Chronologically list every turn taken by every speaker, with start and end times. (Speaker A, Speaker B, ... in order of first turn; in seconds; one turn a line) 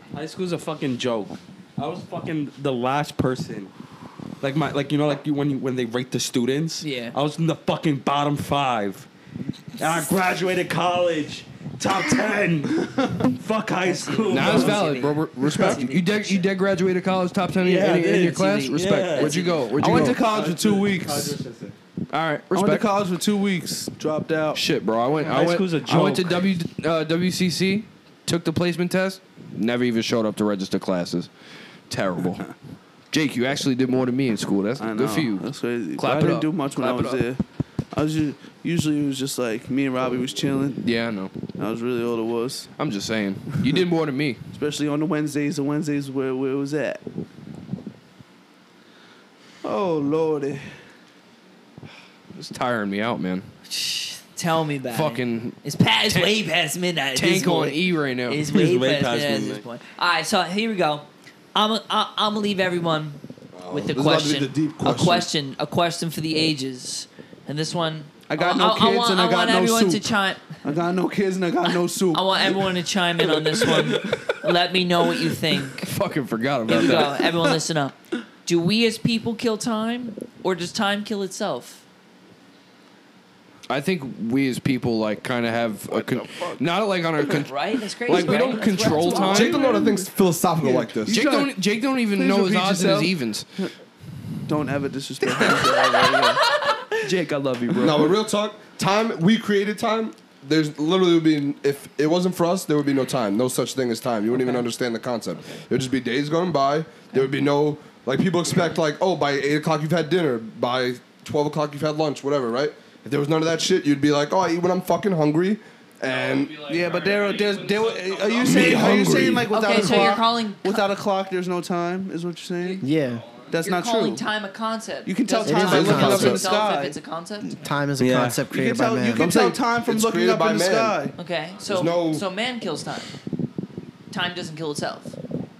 Speaker A: 0.1-3.7
Speaker A: 4.4-9.1
Speaker B: 6.8-7.2
Speaker A: 9.8-14.8
Speaker C: 12.9-13.2
Speaker B: 13.8-16.4
Speaker D: 14.3-20.2
Speaker A: 17.6-21.8
Speaker B: 18.1-19.8
Speaker C: 19.8-21.4
Speaker D: 22.1-22.9
Speaker C: 22.5-24.6
Speaker D: 24.5-31.3
Speaker A: 25.2-26.5
Speaker D: 31.9-32.5
Speaker D: 33.1-37.2
Speaker C: 34.8-37.4
Speaker C: 37.9-40.8
Speaker D: 40.8-41.3
Speaker C: 41.6-42.7
Speaker D: 42.8-44.4
Speaker C: 44.5-47.0
Speaker C: 49.6-50.6
Speaker D: 52.3-53.5
Speaker B: 53.7-70.5
Speaker D: 54.9-56.4
Speaker D: 57.1-58.4
Speaker A: 58.4-59.6
Speaker E: 63.5-65.3
Speaker C: 68.3-70.1
Speaker C: 70.6-72.6
Speaker B: 72.1-75.9
Speaker C: 73.3-73.9
Speaker D: 75.8-77.2
Speaker B: 76.7-81.8
Speaker D: 83.7-87.5
Speaker C: 85.9-86.6
Speaker B: 87.4-89.7
Speaker D: 88.0-89.6
Speaker C: 88.1-91.5
Speaker E: 89.2-91.2
Speaker D: 91.1-93.5
Speaker C: 92.1-93.7
Speaker C: 94.5-96.4
Speaker D: 95.3-95.7
Speaker B: 96.0-97.0
Speaker D: 97.0-98.2
Speaker E: 97.7-116.6
Speaker D: 116.0-118.9
Speaker C: 116.7-122.8
Speaker E: 118.4-119.5
Speaker A: 118.5-119.4
Speaker B: 119.5-120.8
Speaker D: 122.6-123.5
Speaker F: 122.8-123.2
Speaker C: 123.5-124.2
Speaker B: 123.6-127.6
Speaker C: 125.0-127.0
Speaker F: 125.4-126.4
Speaker E: 125.7-126.5
Speaker F: 127.4-129.3
Speaker A: 128.0-128.4
Speaker C: 128.5-131.1
Speaker E: 129.2-131.0
Speaker B: 131.2-133.1
Speaker E: 131.6-132.2
Speaker B: 134.1-135.1